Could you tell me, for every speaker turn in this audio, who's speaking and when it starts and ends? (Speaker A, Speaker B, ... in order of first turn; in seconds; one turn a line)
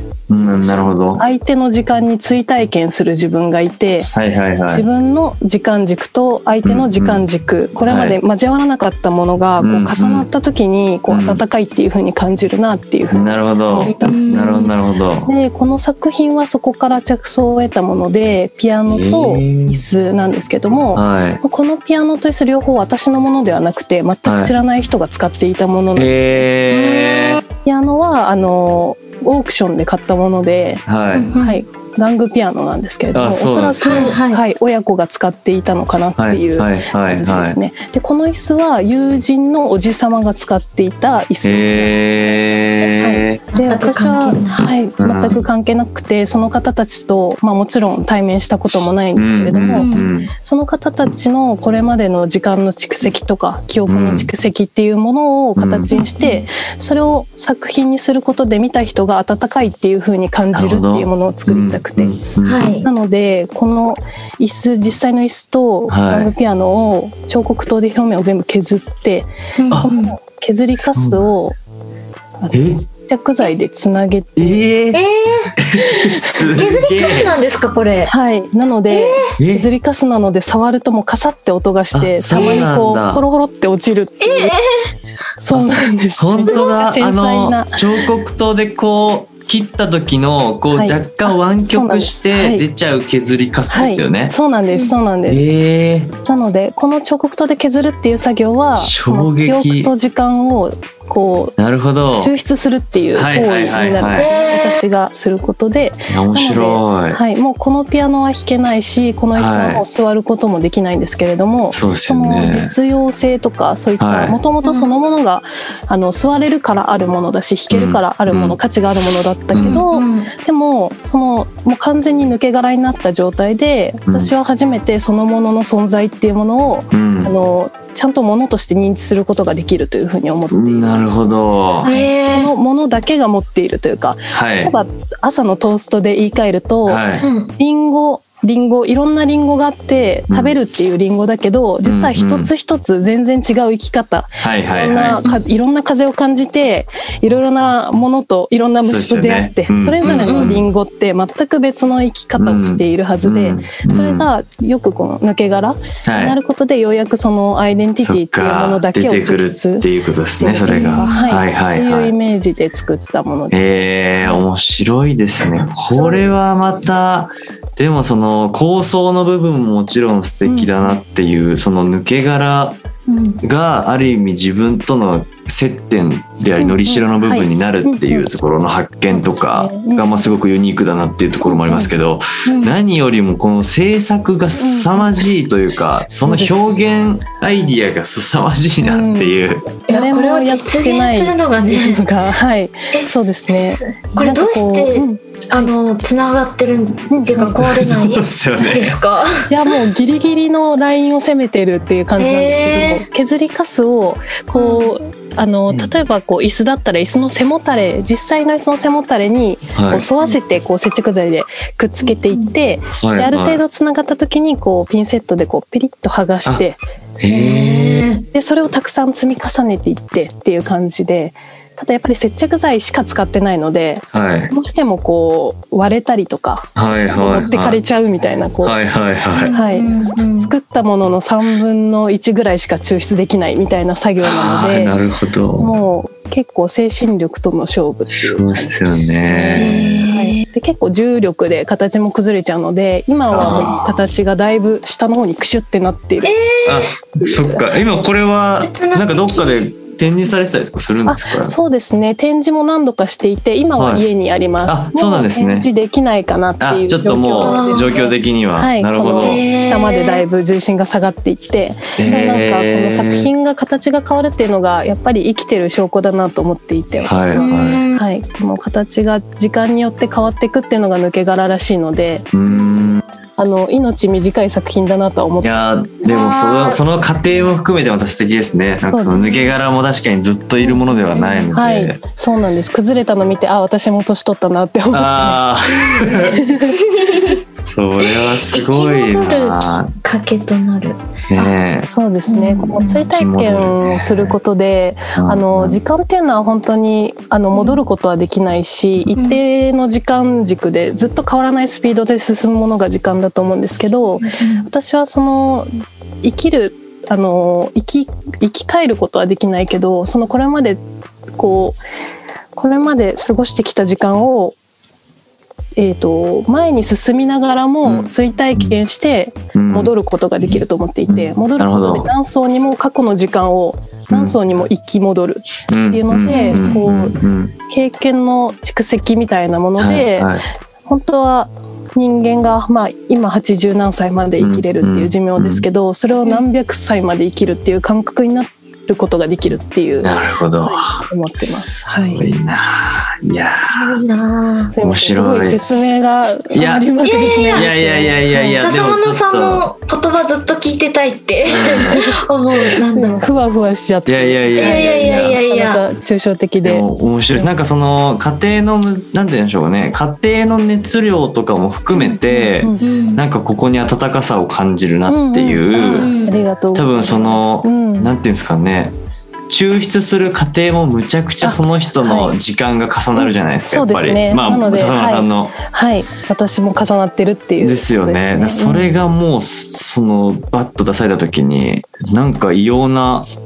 Speaker A: 0.3-1.2
Speaker B: 0.5-4.1
Speaker A: 4.1-4.8
Speaker B: 4.7-14.7
Speaker A: 6.6-7.2
Speaker A: 7.8-8.2
Speaker A: 9.6-10.3
Speaker A: 11.1-11.4
Speaker A: 13.1-15.3
Speaker C: 14.0-14.7
Speaker B: 15.2-26.4
Speaker A: 18.9-19.8
Speaker A: 20.9-21.4
Speaker A: 24.2-24.5
Speaker A: 25.9-27.4
Speaker C: 26.7-27.3
Speaker B: 27.6-30.8
Speaker A: 30.9-31.3
Speaker C: 31.1-31.6
Speaker B: 31.4-62.2
Speaker A: 33.1-34.1
Speaker C: 33.8-34.4
Speaker A: 36.2-37.6
Speaker A: 41.4-43.4
Speaker C: 43.5-44.7
Speaker A: 44.6-45.4
Speaker A: 49.1-50.3
Speaker C: 49.8-50.1
Speaker A: 53.9-54.3
Speaker A: 55.5-56.0
Speaker C: 55.9-56.4
Speaker A: 60.5-62.8
Speaker C: 62.4-62.9
Speaker B: 62.8-69.3
Speaker A: 65.9-66.3
Speaker C: 69.6-70.1
Speaker B: 69.8-71.5
Speaker A: 70.9-71.2
Speaker B: 72.4-74.7
Speaker A: 72.5-72.8
Speaker A: 74.4-75.0
Speaker C: 74.9-75.5
Speaker A: 75.6-77.3
Speaker C: 76.1-78.1
Speaker B: 76.2-76.5
Speaker B: 78.1-84.6
Speaker C: 78.9-79.3
Speaker A: 79.4-79.7
Speaker A: 81.9-83.2
Speaker C: 82.3-82.6
Speaker C: 84.2-84.9
Speaker B: 85.4-88.0
Speaker A: 85.5-94.3
Speaker B: 90.7-92.6
Speaker B: 93.7-95.4
Speaker A: 95.3-96.1
Speaker B: 96.2-101.5
Speaker A: 98.7-99.9
Speaker A: 101.6-102.3
Speaker B: 102.2-131.1
Speaker A: 103.1-104.3
Speaker C: 104.2-104.8
Speaker A: 106.1-107.2
Speaker A: 109.3-109.8
Speaker A: 111.7-112.7
Speaker A: 114.0-114.4
Speaker C: 114.6-114.9
Speaker A: 117.7-118.6
Speaker A: 119.5-119.8
Speaker C: 119.6-120.3
Speaker A: 124.1-124.3
Speaker A: 126.9-127.3
Speaker A: 130.5-131.9
Speaker C: 131.8-132.5
Speaker B: 131.8-137.0
Speaker A: 134.3-134.7
Speaker A: 136.8-137.2
Speaker C: 137.2-137.5
Speaker B: 137.6-163.6
Speaker A: 141.8-142.5
Speaker A: 144.4-145.2
Speaker A: 148.8-150.7
Speaker C: 150.0-150.6
Speaker A: 152.3-154.3
Speaker A: 156.0-156.4
Speaker A: 158.0-162.1
Speaker C: 160.7-161.3
Speaker A: 163.5-172.8
Speaker B: 170.4-170.9
Speaker C: 173.1-173.4
Speaker A: 173.4-189.7
Speaker B: 176.6-178.3
Speaker B: 179.1-180.2
Speaker B: 181.4-181.9
Speaker C: 182.4-182.7
Speaker B: 184.6-185.3
Speaker B: 186.2-186.6
Speaker B: 188.8-195.7
Speaker C: 189.9-192.0
Speaker C: 193.8-199.5
Speaker B: 197.1-197.6
Speaker A: 197.3-199.0
Speaker B: 199.5-216.8
Speaker C: 202.2-203.0
Speaker C: 204.6-204.9
Speaker A: 209.7-210.1
Speaker C: 212.1-212.5
Speaker A: 213.0-213.6
Speaker A: 217.2-218.0
Speaker C: 217.3-218.2
Speaker B: 218.3-228.8
Speaker A: 224.1-224.5
Speaker A: 226.8-227.8
Speaker A: 228.6-229.5
Speaker C: 229.3-230.5
Speaker B: 229.5-234.9
Speaker A: 234.2-235.7
Speaker B: 235.6-246.3
Speaker A: 238.1-240.1
Speaker C: 239.6-240.4
Speaker A: 243.3-243.9
Speaker C: 243.4-243.7
Speaker C: 246.2-246.9
Speaker A: 246.7-251.5
Speaker B: 247.2-247.6
Speaker C: 248.6-249.7
Speaker B: 251.1-272.3
Speaker A: 253.8-254.0
Speaker A: 254.7-255.7
Speaker A: 256.6-259.4
Speaker C: 257.4-258.0
Speaker C: 259.2-260.2
Speaker A: 262.0-263.3
Speaker A: 267.1-267.8
Speaker C: 267.4-268.0
Speaker A: 272.3-273.0
Speaker B: 273.4-275.5
Speaker A: 275.4-282.0
Speaker C: 276.0-276.8
Speaker B: 278.8-279.4
Speaker C: 280.7-281.5
Speaker B: 281.5-286.8
Speaker A: 284.9-286.5
Speaker C: 286.8-287.4
Speaker A: 287.5-289.9
Speaker C: 288.0-291.4
Speaker A: 291.3-291.9
Speaker B: 291.9-305.7
Speaker C: 292.3-293.0
Speaker A: 293.1-294.3
Speaker A: 295.1-295.8
Speaker C: 297.5-297.8
Speaker C: 304.2-304.6
Speaker B: 306.2-310.8
Speaker B: 311.4-311.8
Speaker B: 312.5-314.6
Speaker B: 315.8-330.3
Speaker A: 317.8-318.8
Speaker A: 319.5-319.9
Speaker A: 321.1-322.1
Speaker A: 324.1-324.4
Speaker A: 325.7-327.5
Speaker C: 326.2-326.8
Speaker A: 329.8-330.4
Speaker B: 330.9-342.2
Speaker A: 334.4-335.6
Speaker A: 340.0-344.0
Speaker C: 343.6-344.7
Speaker B: 344.7-348.7
Speaker A: 344.8-345.9
Speaker A: 346.5-346.9
Speaker C: 347.0-347.7
Speaker A: 347.5-349.7
Speaker C: 348.6-353.3
Speaker A: 351.4-352.0
Speaker B: 352.9-357.5
Speaker A: 354.1-355.4
Speaker C: 354.6-355.8
Speaker A: 356.6-366.1
Speaker B: 361.9-362.8
Speaker C: 362.8-363.2
Speaker B: 365.1-368.1
Speaker C: 365.8-366.4
Speaker A: 366.7-369.0
Speaker A: 369.5-375.6
Speaker B: 371.4-372.3
Speaker B: 373.1-378.9
Speaker A: 377.6-383.3